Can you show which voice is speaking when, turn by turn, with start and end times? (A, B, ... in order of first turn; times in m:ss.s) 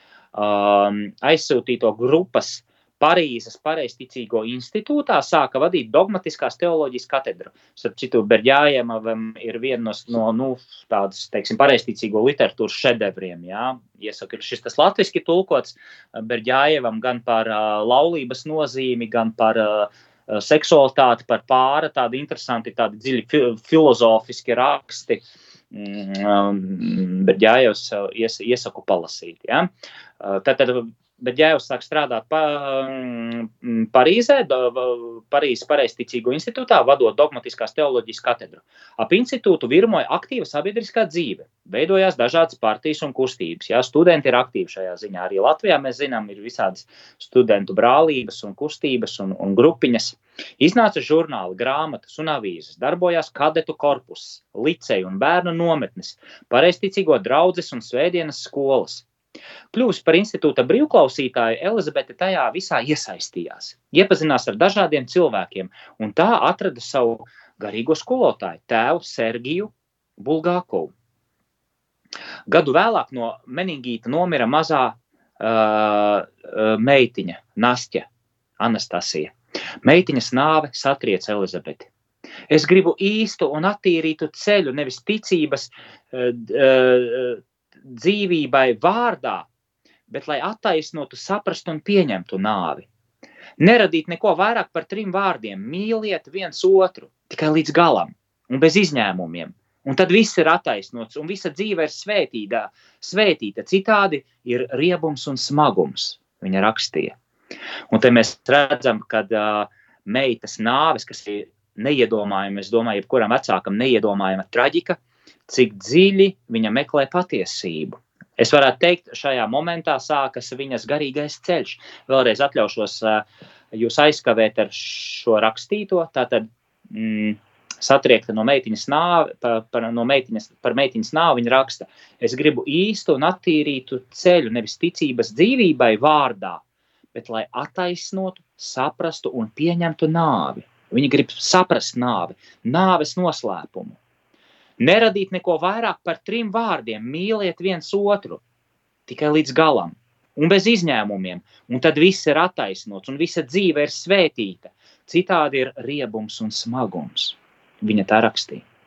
0:00.3-0:59.0 A
0:59.7-1:10.9 A
1:12.5-1:18.1 A
1:18.6-1:21.9 A
1:22.5-1:29.5 A
1:30.1-1:32.9 A
1:33.6-1:47.2 A
1:47.9-2:16.6 A
2:17.1-2:24.0 A
2:24.8-2:28.4 A
2:29.1-2:38.6 A